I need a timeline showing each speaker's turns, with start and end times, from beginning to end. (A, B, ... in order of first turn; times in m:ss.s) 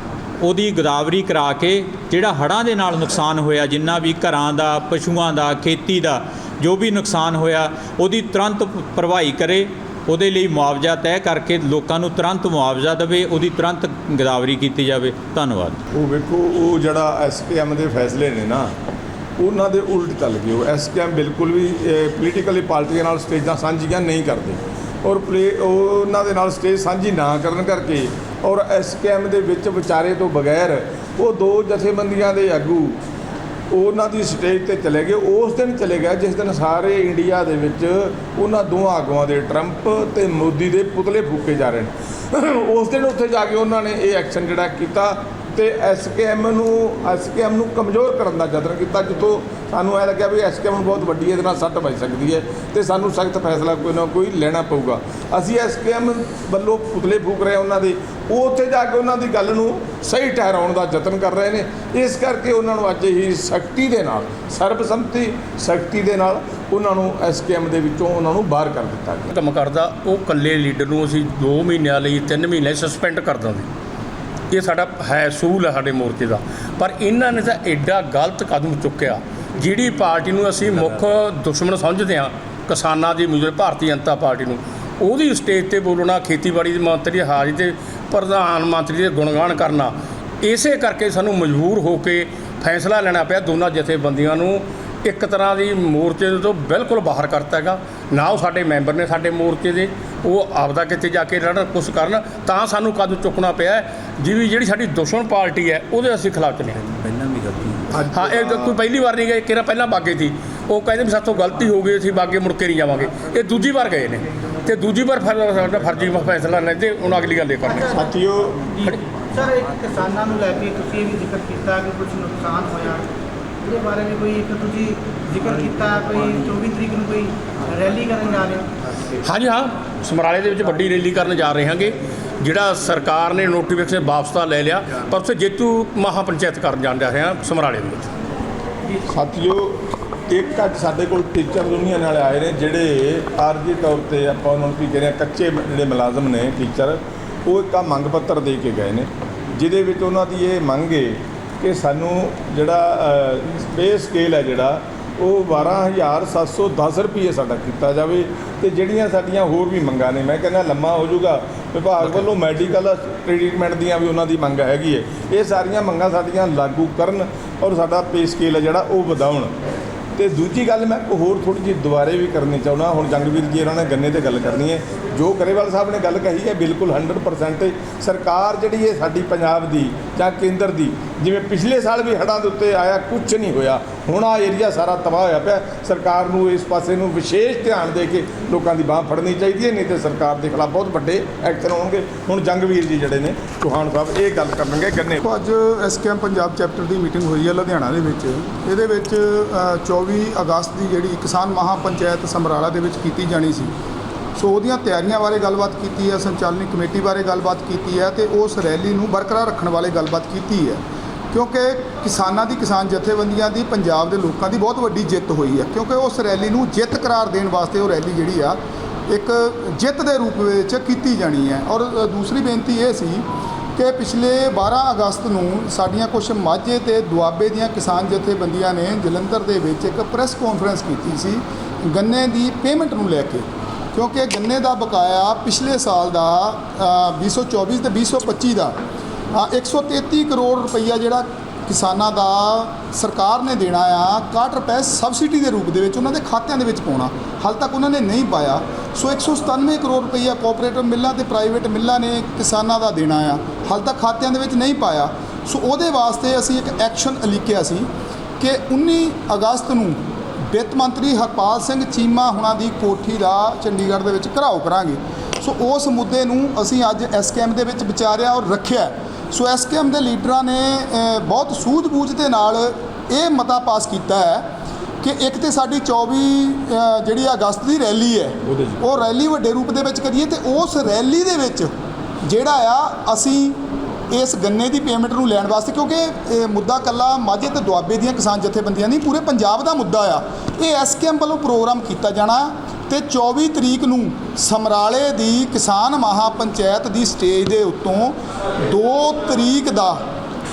0:00.4-0:15.8 A
0:15.9-0:18.7 B
0:19.4-0:33.0 B
0:33.7-1:09.3 B
1:09.3-1:13.7 C
1:14.5-1:46.8 C
1:47.9-1:48.7 B
1:48.1-1:58.0 C
1:57.7-1:58.0 D
1:57.9-1:58.6 B
1:58.8-2:03.0 D
2:03.6-2:08.6 D
2:09.2-2:18.1 C
2:19.1-2:49.5 B
2:50.2-3:15.2 B
3:15.2-3:23.7 E
3:24.4-3:30.8 E
3:31.3-3:38.6 E
3:39.1-3:43.2 E
3:43.8-3:58.7 E
3:59.3-4:17.9 E
4:18.4-4:20.0 E
4:20.5-4:34.4 E
4:35.0-4:41.7 E
4:38.4-4:38.8 B
4:42.3-4:43.6 E
4:44.1-5:00.0 E